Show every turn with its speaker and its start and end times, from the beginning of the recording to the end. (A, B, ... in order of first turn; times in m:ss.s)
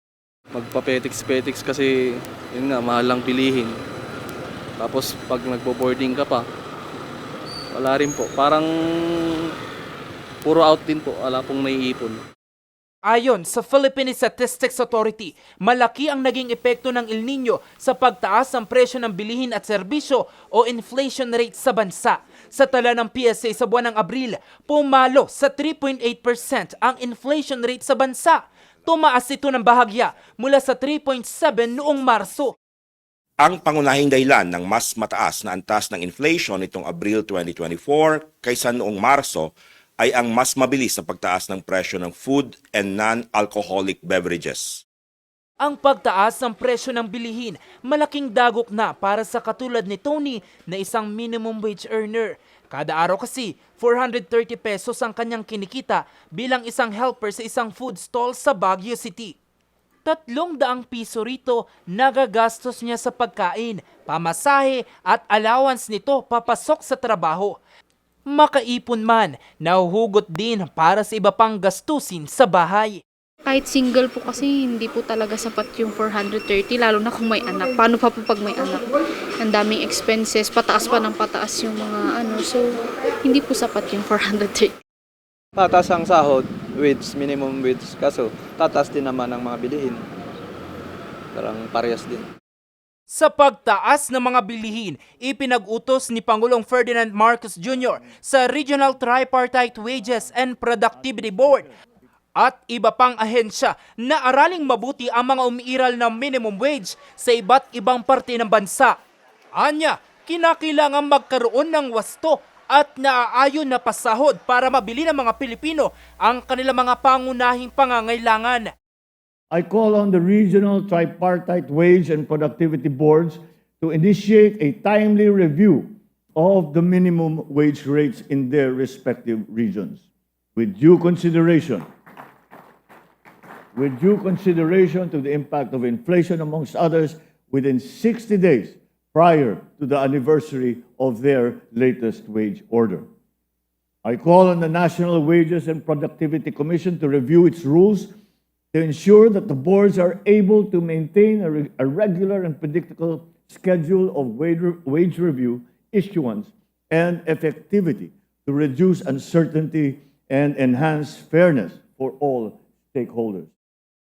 0:00.5-0:01.9 A
0:02.5-0:03.8 A
0:04.8-0:06.4 A
0:07.7-0:09.5 A
0:10.4-0:12.2 A
0:13.1-0:32.5 B
0:33.4-0:44.8 C
0:45.6-0:59.4 B
1:00.0-1:07.6 B
1:08.3-1:13.0 B
1:13.5-1:18.9 D
1:19.4-1:22.6 D
1:23.2-1:24.7 D
1:25.6-1:30.0 E
1:31.3-1:32.3 E
1:33.1-1:41.7 B
1:42.4-1:49.0 B
1:49.6-1:58.7 B
1:59.5-2:10.0 F
2:10.6-2:11.9 F
2:13.8-2:23.0 F
2:24.0-2:28.1 F
2:28.7-2:43.5 F